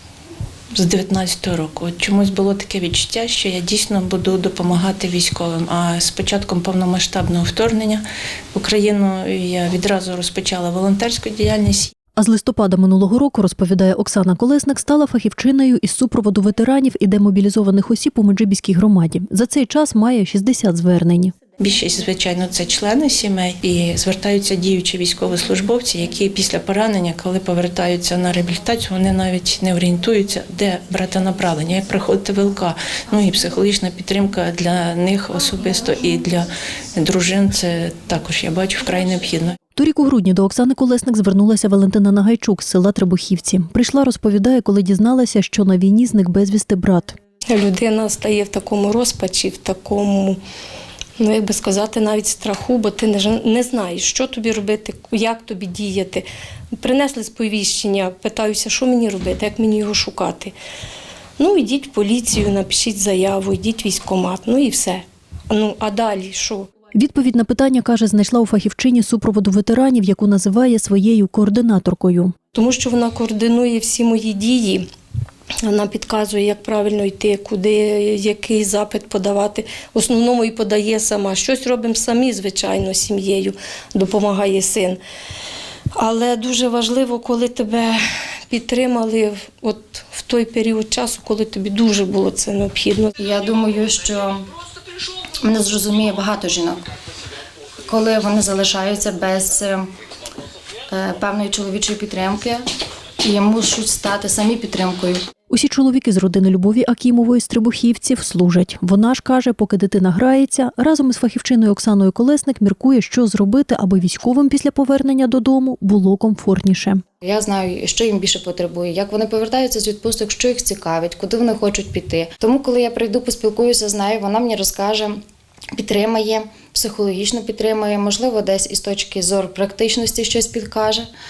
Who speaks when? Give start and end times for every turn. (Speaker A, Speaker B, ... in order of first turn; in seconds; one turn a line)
Speaker A: 0.7-8.0
Speaker A: 8.5-11.9
Speaker B: 12.2-21.4
Speaker A: 21.6-39.6
Speaker B: 39.8-47.2
Speaker C: 47.5-50.4
Speaker C: 51.2-56.2
Speaker C: 56.8-60.5
Speaker C: 61.4-66.7
Speaker B: 66.9-72.3
Speaker C: 72.5-74.8
Speaker C: 75.6-85.0
Speaker C: 86.0-88.0
Speaker C: 88.5-93.1
Speaker D: 93.2-94.5
Speaker D: 95.4-96.8
Speaker D: 97.9-99.9
Speaker D: 100.9-102.6
Speaker D: 103.2-105.2
Speaker B: 105.5-117.0
Speaker D: 117.2-125.2
Speaker D: 125.8-131.1